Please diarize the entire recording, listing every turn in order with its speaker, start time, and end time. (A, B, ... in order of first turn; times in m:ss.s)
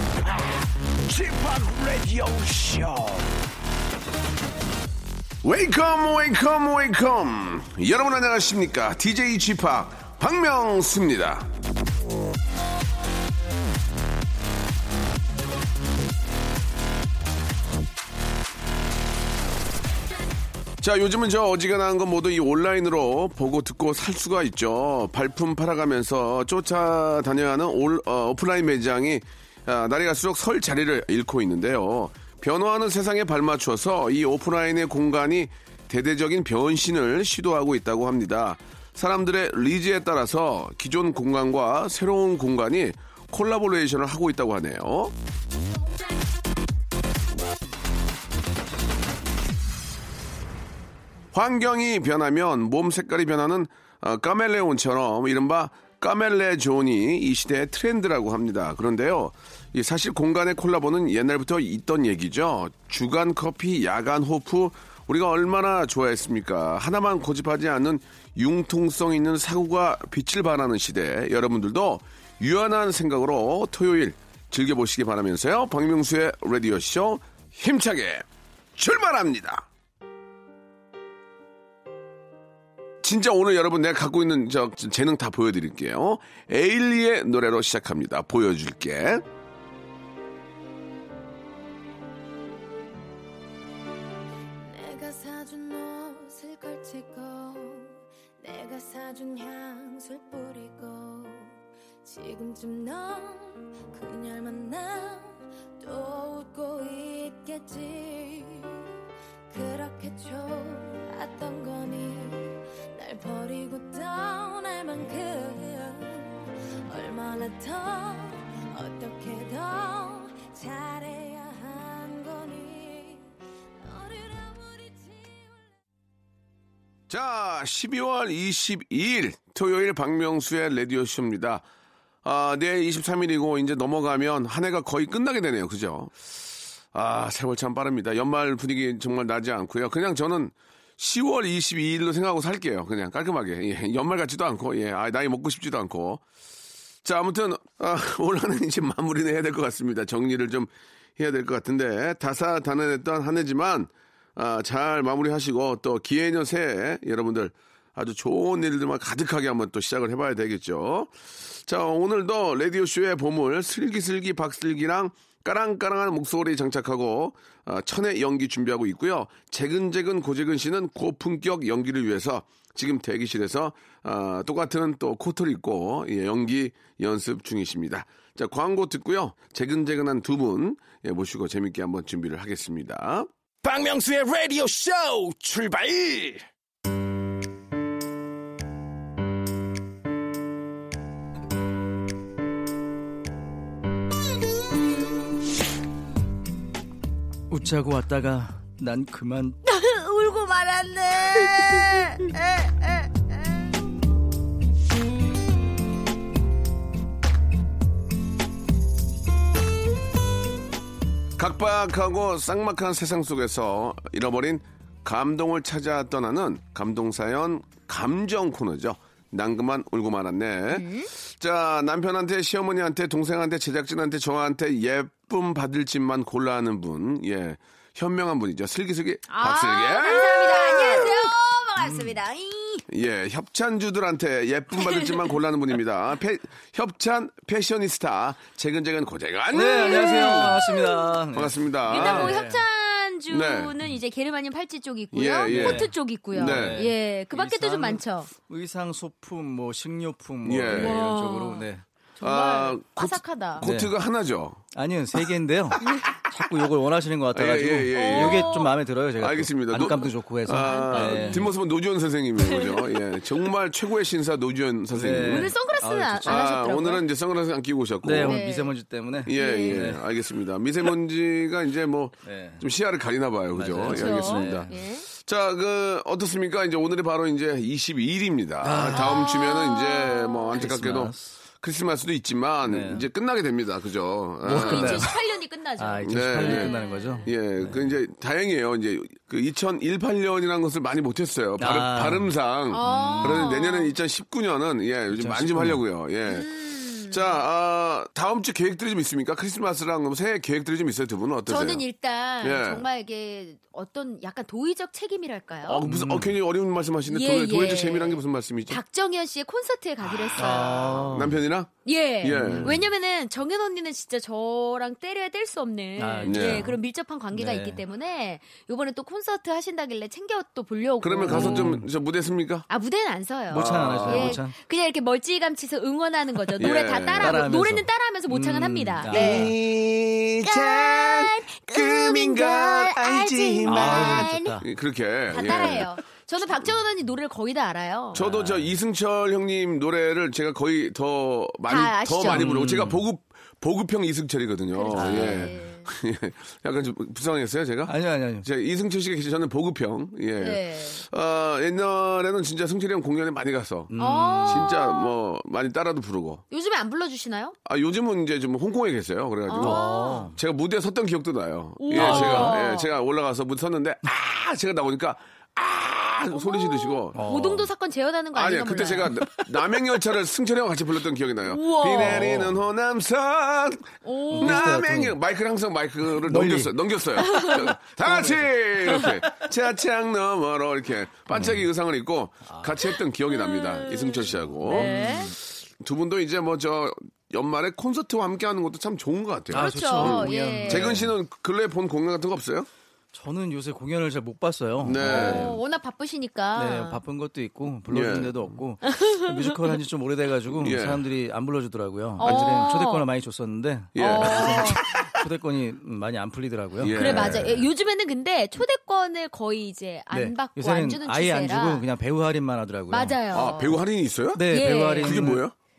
0:00.2-0:03.4 A
0:05.4-0:11.5 B
0:20.8-0:45.1 B
0:51.3-1:19.7 B
1:23.0-1:29.2 B
1:34.6-1:48.8 C
1:49.5-2:03.3 C
2:03.8-2:05.7 C
2:07.1-2:11.7 B
2:12.2-2:16.2 B
2:16.9-2:26.2 B
2:27.0-3:03.3 B
3:03.6-3:06.4 A
3:17.5-3:19.6 D
3:19.6-3:23.3 E
3:31.4-3:51.3 B
3:40.7-3:41.1 E
3:49.3-3:52.9 E
3:51.8-3:52.2 D
3:52.9-4:00.6 B
3:54.8-3:55.2 E
3:59.5-4:02.6 D
3:59.6-4:01.1 E
4:01.3-4:02.4 B
4:01.9-4:08.3 E
4:03.3-4:03.7 B
4:05.1-4:06.9 B
4:05.5-4:11.8 D
4:10.4-4:11.0 B
4:10.7-4:11.7 E
4:12.2-4:13.6 E
4:12.2-4:14.6 B
4:13.6-4:13.9 D
4:14.7-4:21.5 D
4:15.8-4:16.1 E
4:17.3-4:18.6 B
4:17.9-4:18.7 E
4:19.2-4:25.5 B
4:20.5-4:21.5 E
4:22.4-4:23.0 E
4:24.9-4:26.4 D
4:25.2-4:27.0 E
4:26.2-4:28.4 B
4:28.0-4:30.0 D
4:28.2-4:28.7 E
4:29.2-4:45.1 B
4:29.3-4:29.9 E
4:32.2-4:32.6 D
4:33.5-4:34.7 D
4:33.9-4:35.1 E
4:38.6-4:39.3 D
4:38.9-4:40.8 E
4:40.6-4:41.3 D
4:42.7-4:43.1 D
4:44.4-4:45.1 D
4:44.5-4:47.3 E
4:45.8-4:47.9 D
4:46.0-4:46.7 B
4:47.2-5:01.8 B
4:51.6-4:53.5 D
4:52.7-4:53.9 E
4:55.1-4:55.8 D
4:56.3-4:57.2 E
5:01.5-5:05.8 E
5:02.4-5:02.9 B
5:05.7-5:08.8 B
5:05.8-5:06.4 D
5:07.1-5:11.0 E
5:10.2-5:11.7 B
5:10.4-5:11.4 D
5:11.9-5:21.8 E
5:12.2-5:12.8 B
5:12.4-5:12.8 D
5:16.0-5:16.8 D
5:16.2-5:16.7 B
5:17.3-5:17.8 D
5:21.0-5:22.7 B
5:21.3-5:21.9 D
5:22.7-5:29.6 E
5:23.5-5:24.6 D
5:23.6-5:24.4 B
5:26.6-5:27.5 B
5:27.2-5:29.6 D
5:29.1-5:35.9 B
5:30.4-5:34.6 E
5:33.6-5:34.7 D
5:35.3-5:38.2 E
5:38.1-5:38.8 D
5:38.1-5:53.9 B
5:41.7-5:42.5 E
5:42.3-5:43.1 D
5:44.7-5:45.9 E
5:44.9-5:45.6 D
5:47.9-5:48.5 D
5:50.4-5:51.0 E
5:53.9-5:54.7 D
5:54.0-5:55.1 E
5:54.5-5:56.4 B
5:56.5-5:57.6 E
5:57.7-5:59.8 B
5:59.5-6:00.3 E
5:59.6-6:00.4 D
6:00.4-6:07.2 B
6:01.8-6:02.9 E
6:01.9-6:02.6 D
6:06.3-6:09.2 E
6:07.1-6:07.7 D
6:08.4-6:25.1 B
6:11.4-6:12.4 E
6:11.9-6:12.6 D
6:14.0-6:14.8 E
6:14.3-6:15.2 D
6:16.1-6:16.8 D
6:17.2-6:17.7 E
6:18.0-6:19.1 D
6:21.3-6:21.7 D
6:22.4-6:22.8 D
6:23.3-6:25.3 E
6:24.6-6:25.4 D
6:25.8-6:32.7 B
6:29.5-6:31.1 D
6:29.5-6:31.0 E
6:33.1-6:35.6 D
6:34.8-6:35.6 B
6:35.0-6:37.0 E
6:36.6-6:47.7 D
6:37.9-6:38.6 B
6:38.9-6:39.7 E
6:40.5-6:41.1 B
6:42.2-6:43.1 E
6:42.2-6:42.6 B
6:44.0-6:45.1 B
6:44.0-6:44.8 E
6:46.8-6:47.5 B
6:46.9-6:51.9 E
6:50.1-6:53.2 D
6:52.9-6:53.8 E
6:53.3-6:54.5 B
6:54.3-6:55.4 D
6:54.5-6:55.3 E
6:55.0-6:55.5 B